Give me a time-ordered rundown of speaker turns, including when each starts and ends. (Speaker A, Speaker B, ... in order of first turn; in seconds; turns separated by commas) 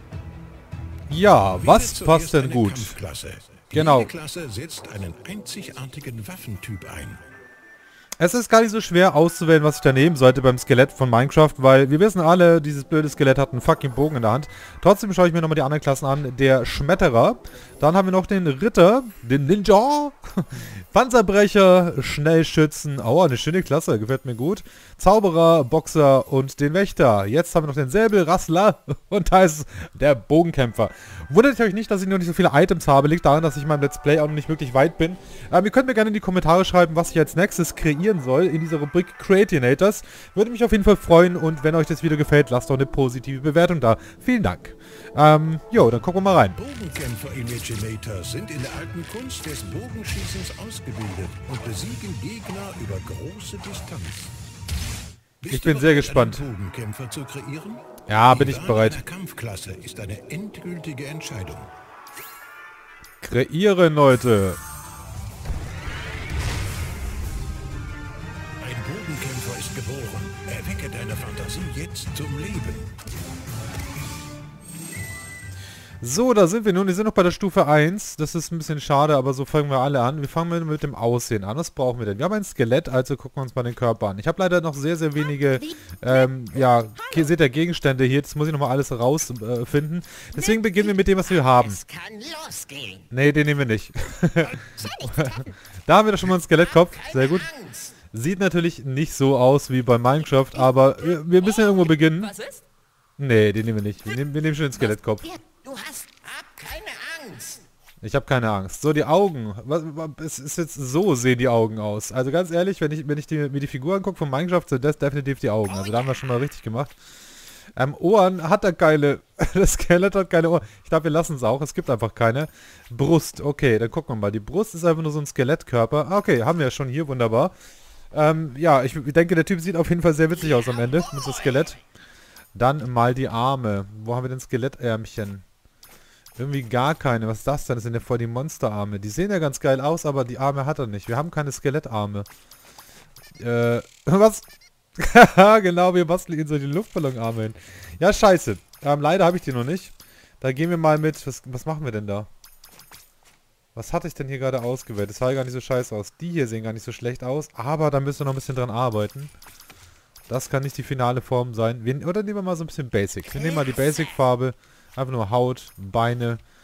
Speaker A: 1.1-3.0, Speaker B: 1.6-7.2, Speaker A: 3.7-4.1, Speaker A: 8.2-46.6, Speaker B: 46.6-54.3, Speaker B: 55.4-61.7, Speaker A: 55.5-56.4, Speaker A: 58.1-59.0, Speaker A: 63.2-64.6, Speaker B: 68.6-72.9, Speaker A: 76.0-91.8, Speaker C: 85.7-86.3, Speaker C: 90.3-93.1, Speaker A: 93.1-97.5, Speaker C: 94.8-95.4, Speaker C: 96.5-98.0, Speaker A: 98.1-102.4, Speaker A: 103.2-105.3, Speaker C: 104.8-107.6, Speaker A: 108.0-117.0, Speaker A: 117.8-127.5, Speaker A: 128.1-131.8, Speaker A: 132.5-135.4, Speaker A: 136.3-142.3, Speaker A: 143.4-152.3, Speaker A: 153.7-159.3, Speaker A: 160.3-166.4